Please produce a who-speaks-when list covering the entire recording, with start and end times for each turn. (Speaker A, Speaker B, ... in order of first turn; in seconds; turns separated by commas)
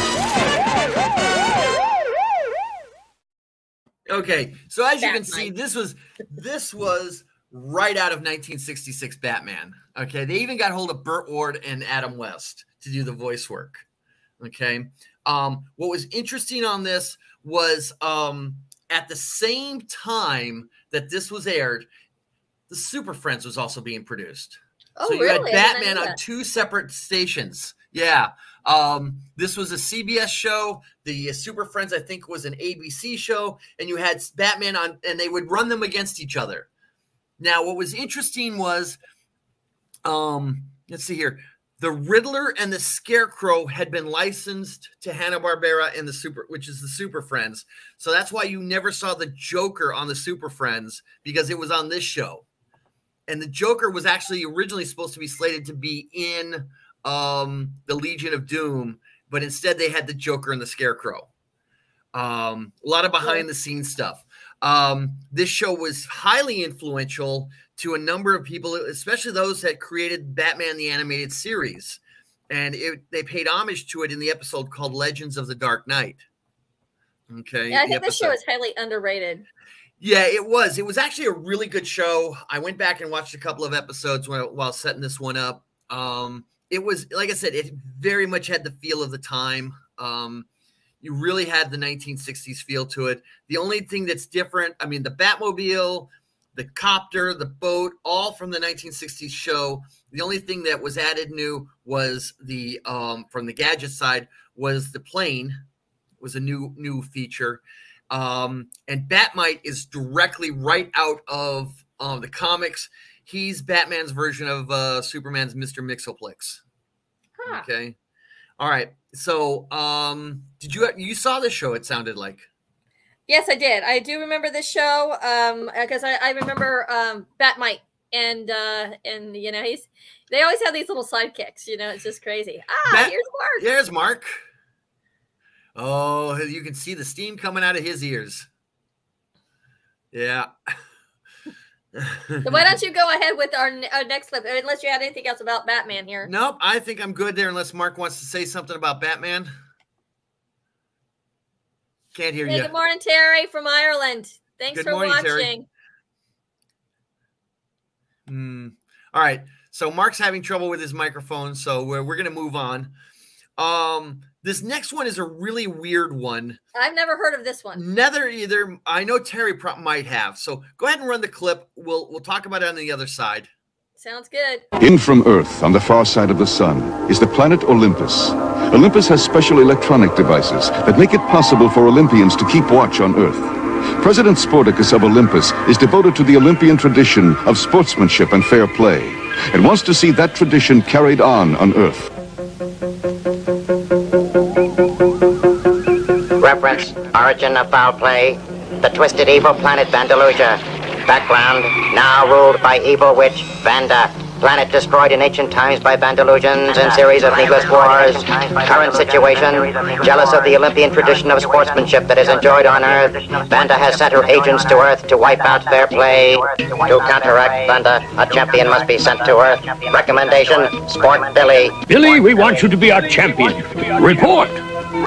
Speaker A: 4.1-13.8, Speaker B: 5.0-5.5, Speaker A: 14.4-21.9, Speaker A: 22.7-36.7, Speaker B: 25.0-26.2, Speaker A: 37.4-39.0, Speaker A: 40.0-52.4, Speaker A: 53.3-61.3, Speaker A: 62.1-76.2, Speaker A: 77.3-78.4, Speaker B: 77.7-79.5, Speaker A: 80.0-90.5, Speaker A: 91.0-105.6, Speaker A: 106.2-116.6, Speaker B: 117.4-117.7, Speaker A: 117.5-117.9, Speaker A: 118.6-122.5, Speaker B: 123.3-133.6, Speaker A: 132.9-134.4, Speaker A: 135.7-138.5, Speaker A: 140.1-140.7, Speaker A: 141.9-142.7, Speaker B: 142.4-146.3, Speaker A: 146.2-149.5, Speaker A: 152.1-152.7, Speaker B: 152.4-155.7, Speaker A: 154.7-155.5, Speaker A: 158.2-162.9, Speaker A: 163.6-166.6, Speaker B: 166.7-167.8, Speaker A: 167.8-173.5, Speaker B: 174.0-174.6, Speaker C: 174.8-192.1, Speaker D: 196.4-221.8, Speaker E: 221.9-224.6